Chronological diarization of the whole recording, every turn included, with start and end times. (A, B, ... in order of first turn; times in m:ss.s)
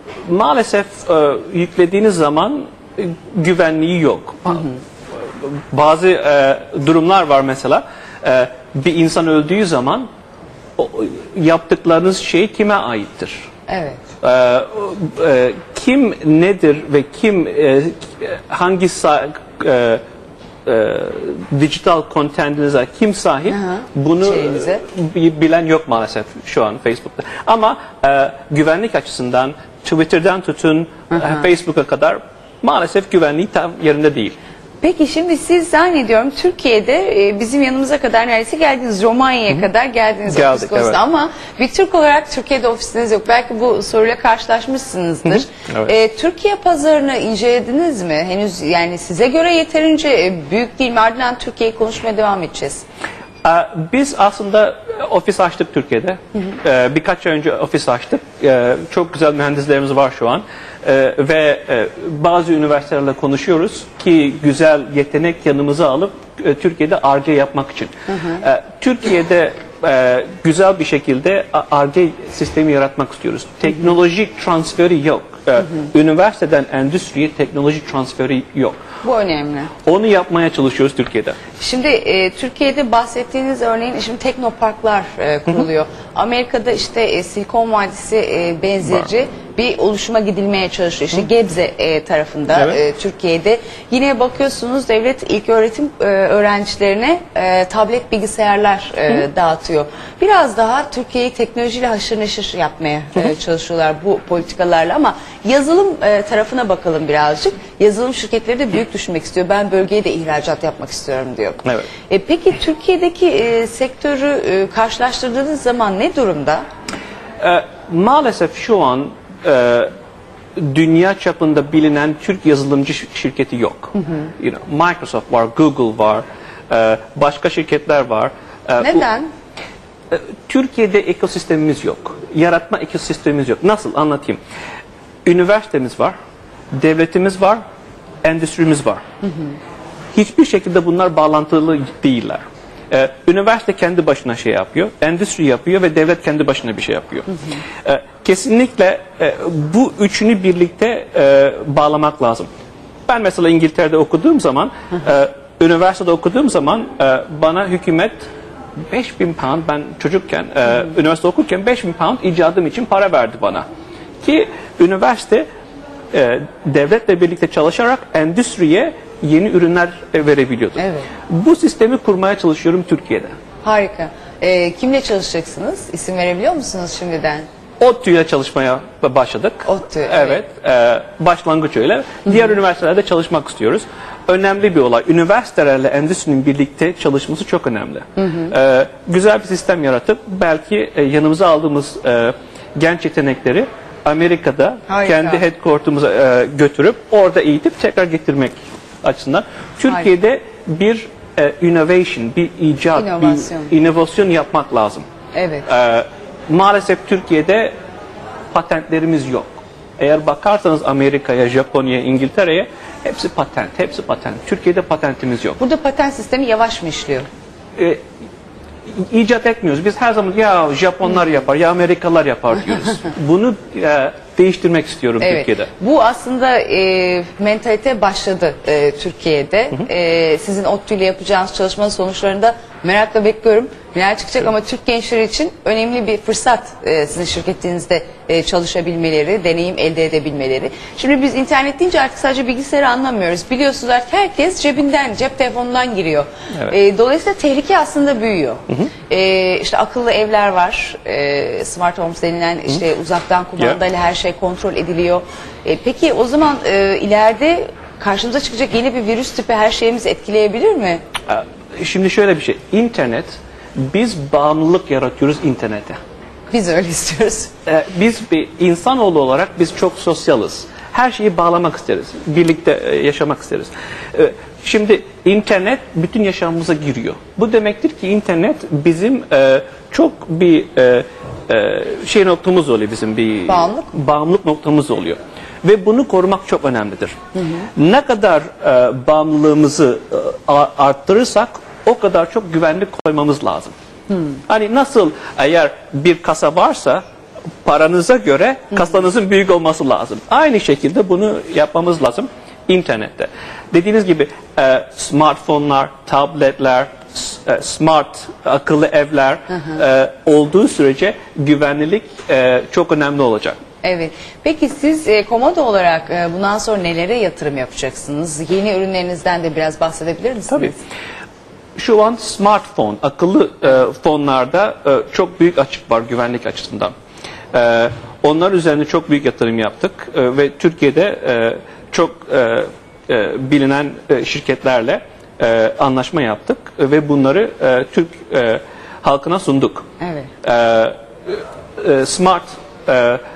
0:00.3-0:04.7 A
0:05.3-0:10.1 A
0:10.8-0:13.4 A
0:13.7-0:14.0 B
0:14.2-0:20.0 A
0:20.6-0:34.4 A
0:23.5-0:24.8 B
0:31.1-0:31.4 B
0:34.8-0:52.8 B
0:40.3-0:41.0 A
0:45.3-0:45.9 A
0:53.4-1:18.8 A
1:08.1-1:08.4 B
1:19.0-1:19.7 B
1:19.8-1:21.4 A
1:21.6-1:56.7 B
1:57.4-1:59.9 A
2:00.6-2:09.0 A
2:04.0-2:04.3 B
2:08.8-2:09.3 B
2:10.1-2:14.4 A
2:15.2-2:16.1 A
2:16.7-2:17.6 A
2:18.2-2:19.0 A
2:20.1-2:27.3 A
2:27.8-2:32.5 A
2:33.1-2:38.3 A
2:38.9-2:43.6 A
2:44.2-2:45.5 A
2:46.1-2:53.3 A
2:50.8-2:51.1 B
2:53.6-2:57.5 B
2:57.8-3:25.0 A
2:59.7-3:00.4 B
3:08.2-3:08.5 B
3:14.9-3:15.4 B
3:23.0-3:23.7 B
3:25.3-3:25.7 B
3:25.7-3:27.7 A
3:28.5-3:35.6 A
3:35.6-3:37.3 B
3:38.9-3:45.7 A
3:45.2-4:21.0 B
4:21.3-4:26.0 A
4:26.5-4:27.5 B
4:27.7-4:47.2 A
4:43.5-4:43.9 B
4:47.8-4:53.7 A
4:54.5-4:57.0 A
4:57.6-5:13.6 A
5:13.8-5:20.8 B
5:21.8-5:26.9 A
5:27.5-5:39.9 A
5:40.0-5:40.3 B
5:40.4-5:43.2 A